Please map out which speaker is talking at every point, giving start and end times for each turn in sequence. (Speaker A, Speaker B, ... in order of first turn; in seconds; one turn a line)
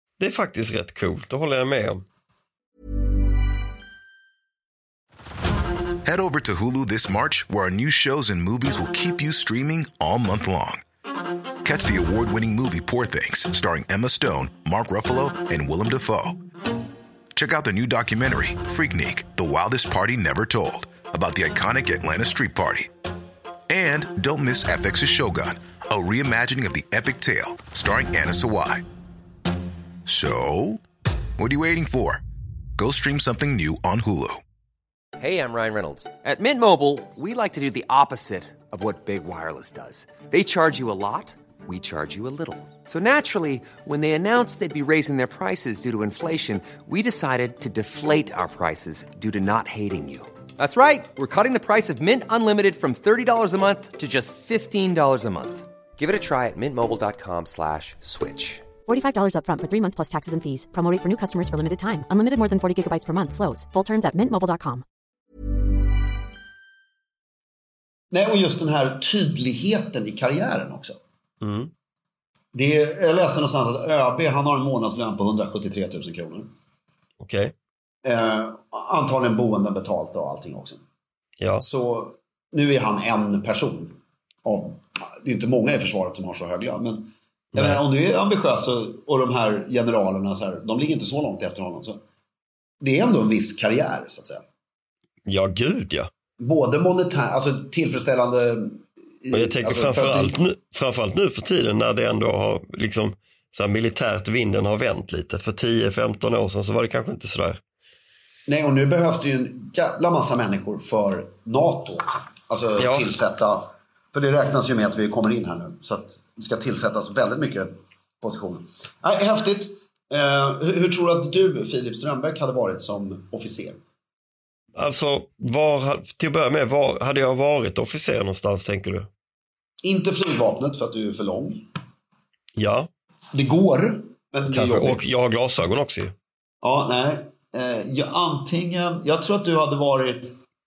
Speaker A: 0.2-2.0
Speaker B: 6.0-10.8
Speaker B: 11.6-16.4
Speaker B: 17.4-22.9
Speaker B: 23.7-28.8
Speaker B: 30.1-30.8
Speaker B: 31.4-32.2
Speaker B: 32.8-34.4
Speaker C: 35.2-58.6
Speaker D: 58.9-64.8
Speaker E: 68.1-71.0
Speaker A: 71.4-71.7
Speaker E: 72.5-76.5
Speaker A: 77.2-77.5
Speaker E: 78.0-80.8
Speaker A: 81.4-81.7
Speaker E: 81.6-92.0
Speaker A: 87.5-87.8
Speaker E: 92.8-94.4
Speaker A: 95.3-96.1
Speaker E: 96.4-100.4
Speaker A: 99.3-107.6
Speaker E: 108.5-123.8
Speaker A: 112.8-113.1
Speaker A: 124.8-129.1
Speaker E: 129.8-131.7
Speaker A: 132.6-132.9
Speaker E: 133.3-135.0
Speaker A: 134.5-136.1
Speaker E: 136.6-140.3